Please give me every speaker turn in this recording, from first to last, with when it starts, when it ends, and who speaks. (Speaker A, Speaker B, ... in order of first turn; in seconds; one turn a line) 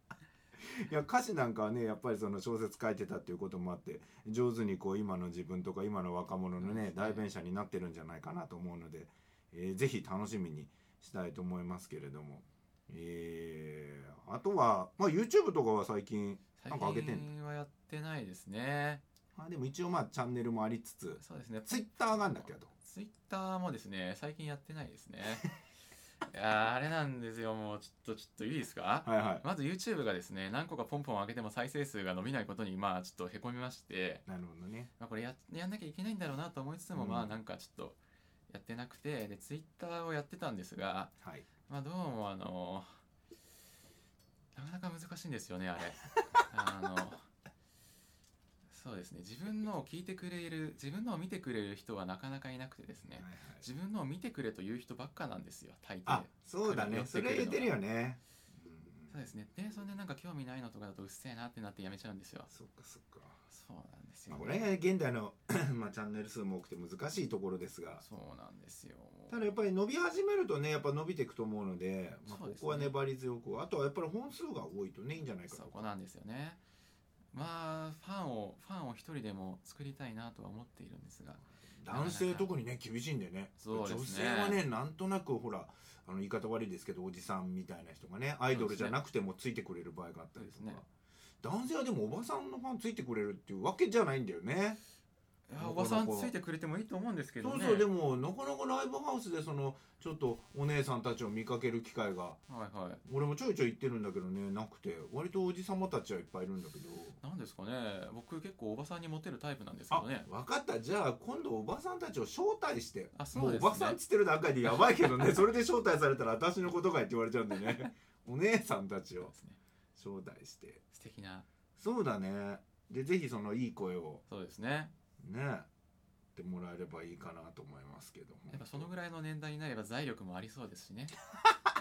Speaker A: 0.7-17.3
Speaker B: 6.6-7.2
Speaker B: 16.6-19.0
Speaker A: 19.4-22.7
Speaker B: 21.2-25.4
Speaker B: 26.3-34.2
Speaker A: 29.0-29.4
Speaker A: 34.2-34.9
Speaker B: 35.0-38.0
Speaker A: 36.9-37.4
Speaker B: 38.5-41.1
Speaker A: 41.2-41.5
Speaker B: 41.7-42.9
Speaker B: 44.5-47.2
Speaker B: 48.7-57.8
Speaker A: 53.0-53.6
Speaker A: 56.0-59.2
Speaker B: 59.1-62.5
Speaker A: 62.5-63.4
Speaker B: 63.5-64.7
Speaker A: 64.3-68.0
Speaker B: 68.0-69.5
Speaker A: 69.3-75.9
Speaker B: 72.2-72.9
Speaker B: 75.5-76.6
Speaker B: 77.3-82.5
Speaker A: 81.4-90.8
Speaker B: 83.6-84.6
Speaker B: 88.5-89.0
Speaker B: 90.3-90.8
Speaker A: 91.4-94.8
Speaker B: 95.5-97.9
Speaker A: 95.6-96.3
Speaker A: 97.4-102.4
Speaker B: 102.5-103.0
Speaker A: 103.0-107.2
Speaker B: 107.2-110.3
Speaker A: 109.9-119.3
Speaker B: 113.1-114.0
Speaker B: 114.6-115.3
Speaker B: 119.2-119.6
Speaker A: 120.0-120.8
Speaker B: 120.9-121.5
Speaker A: 121.8-124.2
Speaker B: 124.3-124.9
Speaker A: 125.2-125.7
Speaker A: 126.3-128.9
Speaker B: 128.5-131.1